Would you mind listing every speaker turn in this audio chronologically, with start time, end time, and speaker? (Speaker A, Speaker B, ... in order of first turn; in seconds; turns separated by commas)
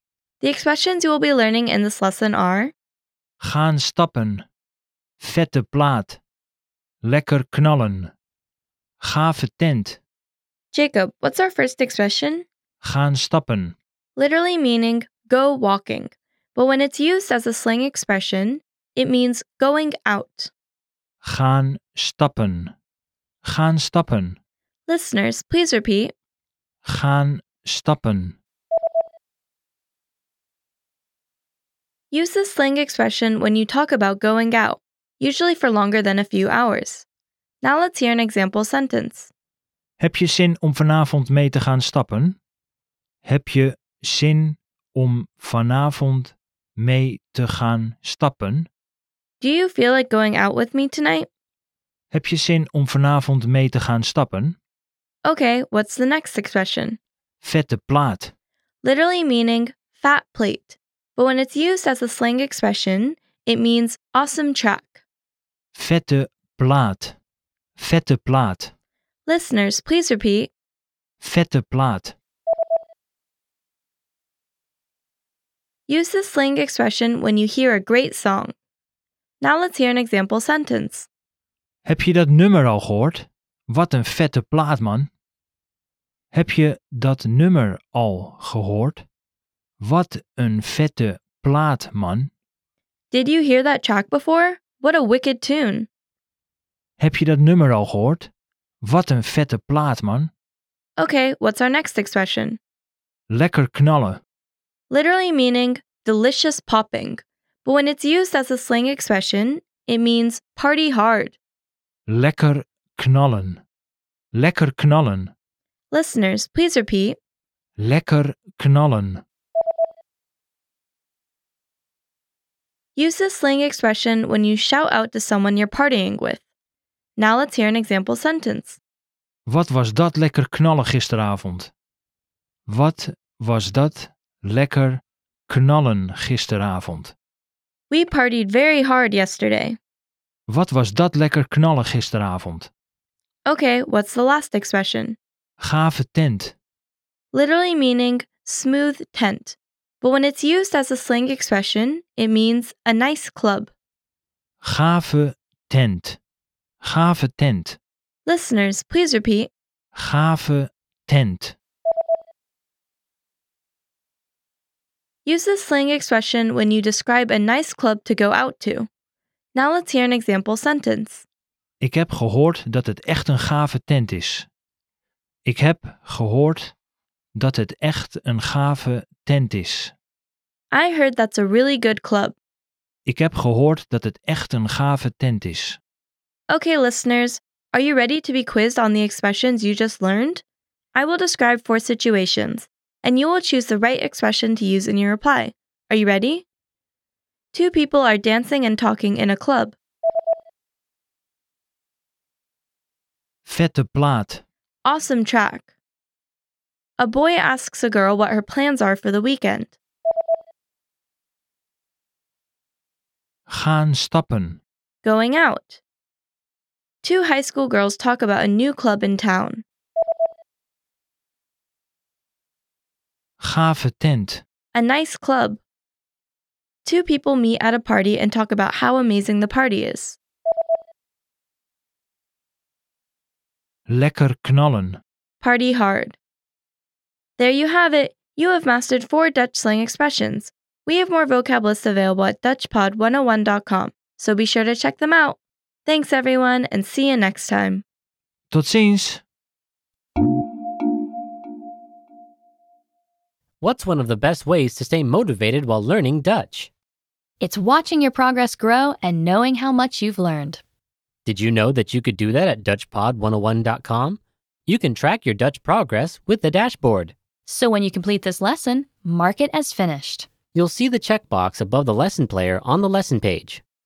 Speaker A: 0.4-2.7, Speaker B: 3.4-4.5, Speaker B: 5.2-6.2, Speaker B: 7.0-8.1, Speaker B: 9.0-10.0, Speaker A: 10.7-12.4, Speaker B: 12.8-13.8, Speaker A: 14.2-20.5, Speaker B: 21.2-22.7, Speaker B: 23.4-24.4, Speaker A: 24.9-26.1, Speaker B: 26.8-28.4, Speaker A: 32.1-37.0, Speaker A: 37.6-39.3, Speaker B: 40.0-42.4, Speaker B: 43.2-48.7, Speaker A: 49.4-51.3, Speaker B: 52.1-54.6, Speaker A: 55.2-57.0, Speaker B: 57.4-58.3, Speaker A: 58.8-65.0, Speaker B: 65.7-67.2, Speaker B: 67.8-68.7, Speaker A: 69.2-70.5, Speaker B: 71.2-72.1, Speaker A: 75.9-78.5, Speaker A: 79.4-81.1, Speaker B: 81.8-85.1, Speaker B: 86.3-89.0, Speaker B: 89.8-92.3, Speaker A: 93.1-95.9, Speaker B: 97.0-98.3, Speaker B: 98.8-100.3, Speaker A: 101.0-102.6, Speaker B: 103.3-104.2, Speaker A: 104.9-111.4, Speaker B: 112.1-113.6, Speaker B: 114.3-115.3, Speaker A: 115.9-117.2, Speaker B: 117.8-119.2, Speaker A: 123.0-126.4, Speaker A: 127.2-128.8, Speaker B: 129.5-131.7, Speaker B: 132.7-137.1, Speaker A: 137.9-139.8, Speaker B: 140.5-142.7, Speaker A: 143.4-145.2, Speaker B: 145.6-146.5, Speaker A: 147.3-153.7, Speaker B: 154.6-156.2, Speaker B: 156.8-157.8, Speaker A: 158.2-159.5, Speaker B: 159.9-161.6, Speaker A: 165.2-168.9, Speaker A: 169.5-171.2, Speaker B: 171.8-174.5, Speaker B: 175.4-176.7, Speaker B: 177.3-179.9, Speaker A: 180.7-182.4, Speaker B: 183.1-185.8, Speaker A: 186.5-196.4, Speaker A: 197.5-199.8, Speaker B: 203.4-204.4, Speaker A: 204.8-205.7, Speaker A: 207.0-209.8, Speaker B: 213.5-214.6, Speaker A: 215.0-215.8, Speaker A: 217.0-219.6, Speaker B: 223.4-224.4, Speaker A: 224.7-225.6, Speaker A: 226.8-230.2, Speaker B: 233.9-235.0, Speaker A: 235.4-236.2, Speaker A: 237.4-247.8, Speaker B: 248.5-249.2, Speaker C: 253.6-256.7, Speaker D: 257.4-260.6, Speaker C: 261.2-267.1, Speaker D: 267.4-270.3, Speaker C: 270.5-273.6